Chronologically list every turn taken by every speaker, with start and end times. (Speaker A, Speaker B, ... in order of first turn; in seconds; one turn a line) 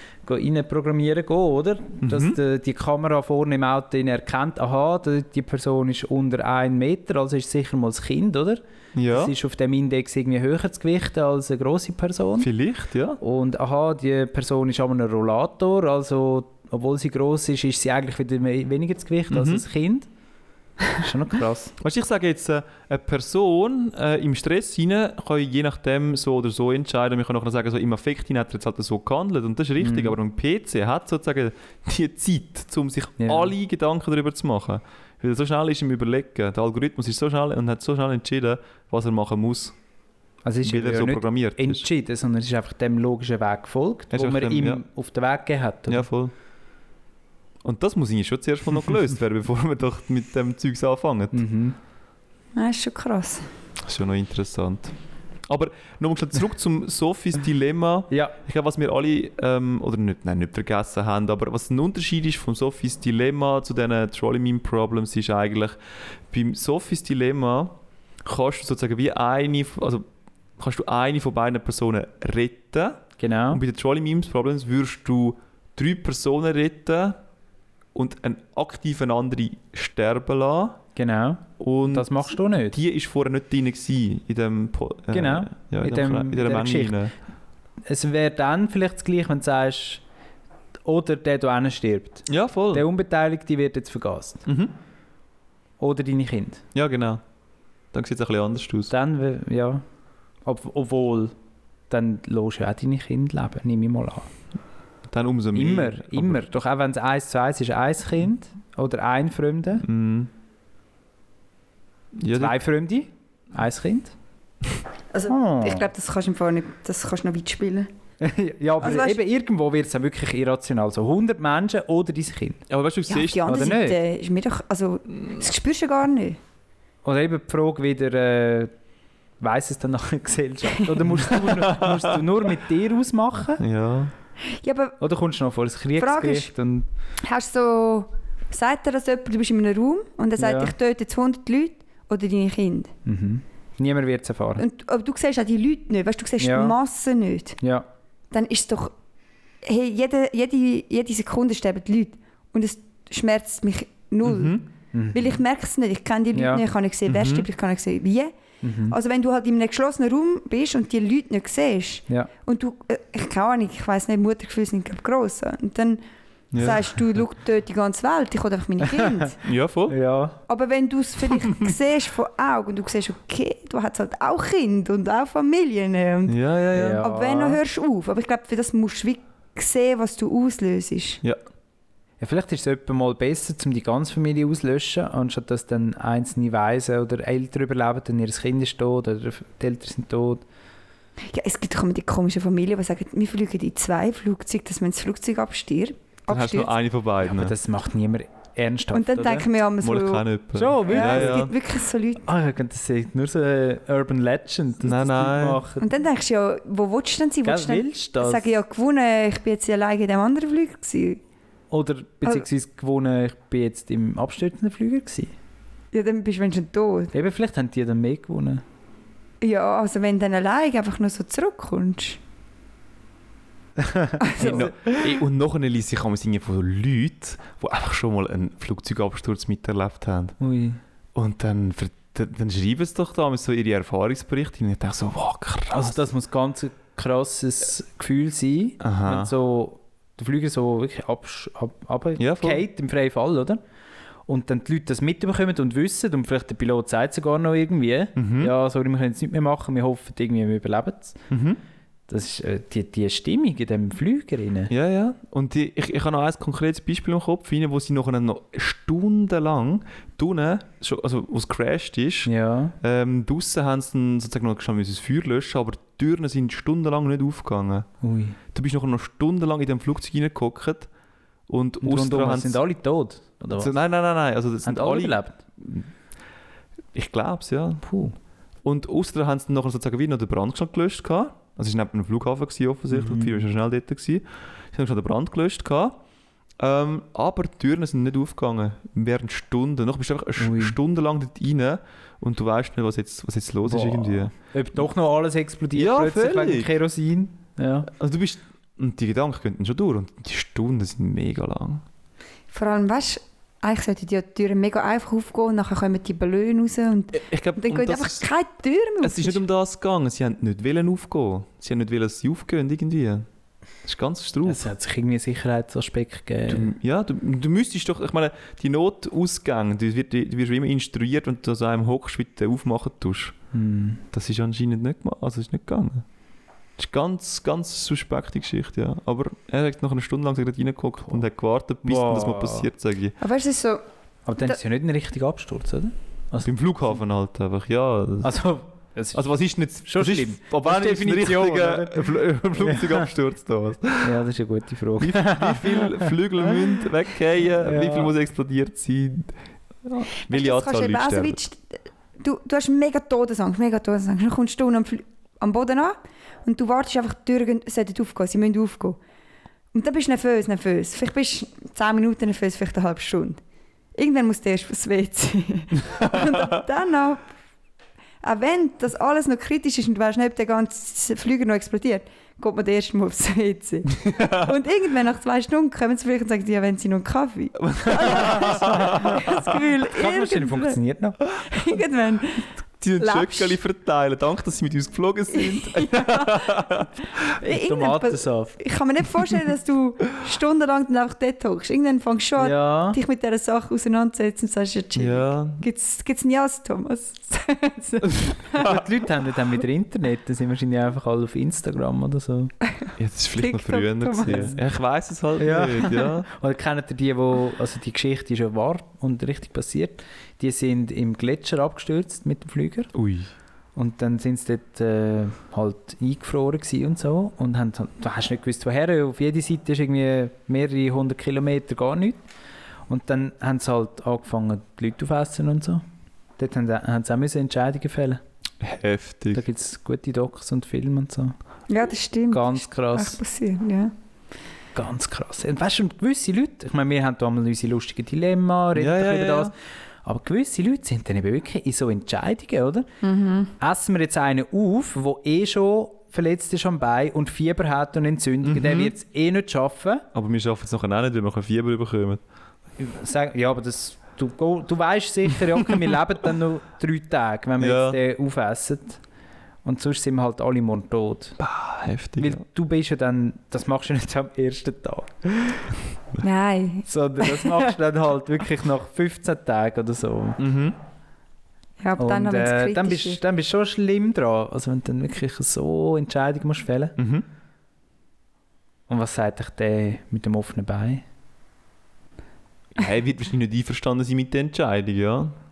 Speaker A: 0.3-12.5
Speaker B: 2.0-2.4
Speaker B: 8.9-9.3
Speaker B: 12.4-13.2
Speaker A: 13.2-20.1
Speaker B: 19.3-19.6
Speaker A: 20.9-21.7
Speaker B: 21.8-39.8
Speaker A: 29.8-30.2
Speaker A: 33.2-33.5
Speaker A: 40.4-46.1
Speaker B: 40.6-41.9
Speaker B: 44.1-44.8
Speaker B: 45.9-46.3
Speaker B: 47.6-51.4
Speaker A: 51.3-51.8
Speaker C: 52.5-53.5
Speaker B: 53.8-55.0
Speaker B: 55.5-65.8
Speaker A: 58.1-58.4
Speaker B: 66.3-70.1
Speaker B: 70.6-77.2
Speaker A: 73.2-73.6
Speaker B: 78.0-80.8
Speaker A: 81.0-82.8
Speaker B: 81.6-87.1
Speaker A: 85.1-87.1
Speaker A: 87.9-90.0
Speaker A: 90.8-94.5
Speaker B: 92.3-92.9
Speaker B: 94.5-94.7
Speaker A: 95.8-96.6
Speaker B: 96.8-97.2
Speaker B: 97.9-98.9
Speaker A: 98.9-99.8
Speaker A: 100.5-101.3
Speaker A: 101.9-104.3
Speaker B: 105.1-106.4
Speaker A: 105.5-109.8
Speaker B: 109.8-110.3
Speaker B: 112.2-112.6
Speaker A: 112.3-114.2
Speaker C: 115.1-117.9
Speaker A: 115.3-115.9
Speaker A: 118.2-122.6
Speaker C: 118.8-119.2
Speaker B: 122.7-123.5
Speaker C: 123.1-126.4
Speaker A: 123.5-124.0
Speaker A: 127.0-128.7
Speaker A: 129.4-133.6
Speaker B: 131.2-132.2
Speaker B: 133.6-134.1
Speaker C: 134.4-135.0
Speaker A: 135.0-136.9
Speaker C: 136.0-136.5
Speaker C: 137.2-142.9
Speaker A: 140.4-140.7
Speaker A: 143.1-144.6
Speaker C: 144.6-147.6
Speaker A: 146.4-146.8
Speaker A: 147.6-147.9
Speaker C: 148.3-148.9
Speaker C: 149.6-154.6
Speaker B: 154.2-154.6
Speaker A: 154.9-155.4
Speaker C: 155.1-158.3
Speaker A: 156.3-156.6
Speaker B: 157.1-157.5
Speaker A: 158.6-159.0
Speaker C: 158.9-166.0
Speaker B: 166.5-166.8
Speaker C: 166.5-169.4
Speaker A: 168.9-169.3
Speaker B: 169.4-170.0
Speaker A: 169.9-170.4
Speaker C: 170.5-176.4
Speaker B: 176.3-177.1
Speaker A: 176.7-177.6
Speaker C: 177.0-181.2
Speaker A: 182.2-190.4
Speaker C: 191.3-196.7
Speaker B: 196.3-197.6
Speaker A: 197.3-199.4
Speaker C: 198.9-200.2
Speaker B: 199.2-201.5
Speaker A: 200.6-201.5
Speaker C: 200.8-202.3
Speaker A: 202.2-205.8
Speaker B: 204.8-205.6
Speaker C: 205.8-211.2
Speaker A: 207.4-208.5
Speaker A: 211.7-215.3
Speaker C: 215.9-217.1
Speaker A: 217.1-218.6
Speaker C: 219.4-222.2
Speaker A: 223.8-224.7
Speaker C: 224.2-224.9
Speaker B: 224.4-230.4
Speaker A: 230.4-230.8
Speaker B: 231.2-236.0
Speaker A: 235.7-243.6
Speaker B: 238.8-239.3
Speaker B: 242.2-242.6
Speaker A: 244.3-251.2
Speaker B: 248.2-248.5
Speaker B: 251.3-251.6
Speaker A: 252.1-254.7
Speaker B: 254.7-267.9
Speaker A: 262.2-262.8
Speaker A: 268.0-268.4
Speaker B: 268.5-270.9
Speaker B: 271.5-272.6
Speaker A: 271.8-273.7
Speaker B: 273.6-275.9
Speaker A: 274.6-275.4
Speaker B: 276.9-277.8
Speaker A: 277.8-278.2
Speaker B: 278.6-286.0
Speaker A: 282.9-283.4
Speaker B: 286.6-294.3
Speaker A: 290.4-290.8
Speaker A: 293.6-297.9
Speaker B: 295.7-296.7
Speaker B: 297.9-301.8
Speaker C: 302.5-309.4
Speaker B: 307.1-308.3
Speaker B: 309.0-313.3
Speaker B: 313.8-314.7
Speaker A: 314.4-316.7
Speaker B: 316.5-323.4
Speaker A: 323.5-324.0
Speaker B: 324.1-326.1
Speaker B: 326.8-333.2
Speaker A: 331.8-332.7
Speaker C: 333.2-333.8
Speaker A: 334.3-336.5
Speaker B: 336.4-338.4
Speaker A: 338.2-343.1
Speaker B: 339.1-344.2
Speaker A: 344.0-346.1
Speaker B: 345.0-351.4
Speaker A: 347.6-348.1
Speaker C: 350.3-359.0
Speaker C: 359.7-363.4
Speaker C: 363.9-367.3
Speaker B: 366.1-366.4
Speaker C: 368.2-380.8
Speaker B: 374.1-374.5
Speaker B: 377.7-379.4
Speaker A: 377.9-381.2
Speaker C: 381.4-382.5
Speaker B: 382.8-386.9
Speaker C: 383.0-383.6
Speaker C: 385.3-398.8
Speaker A: 387.4-388.6
Speaker A: 392.4-393.0
Speaker B: 395.0-395.6
Speaker A: 398.6-402.5
Speaker C: 402.8-404.5
Speaker B: 403.0-406.3
Speaker A: 405.4-412.9
Speaker B: 412.9-413.3
Speaker A: 413.8-422.2
Speaker A: 422.9-425.8
Speaker A: 426.4-428.2
Speaker B: 428.6-429.4
Speaker A: 429.3-431.4
Speaker C: 431.7-433.9
Speaker A: 432.3-433.2
Speaker A: 434.8-439.5
Speaker B: 438.8-439.5
Speaker A: 440.0-442.9
Speaker C: 443.0-443.5
Speaker A: 443.6-450.1
Speaker B: 448.4-448.9
Speaker B: 450.1-452.2
Speaker A: 452.8-459.0
Speaker B: 457.6-458.0
Speaker A: 459.6-461.4
Speaker B: 461.4-462.4
Speaker A: 462.2-465.7
Speaker C: 466.2-467.7
Speaker A: 466.9-470.4
Speaker B: 470.4-470.8
Speaker C: 471.8-473.2
Speaker A: 472.0-477.0
Speaker B: 477.0-477.2
Speaker A: 478.9-481.1
Speaker B: 482.8-485.4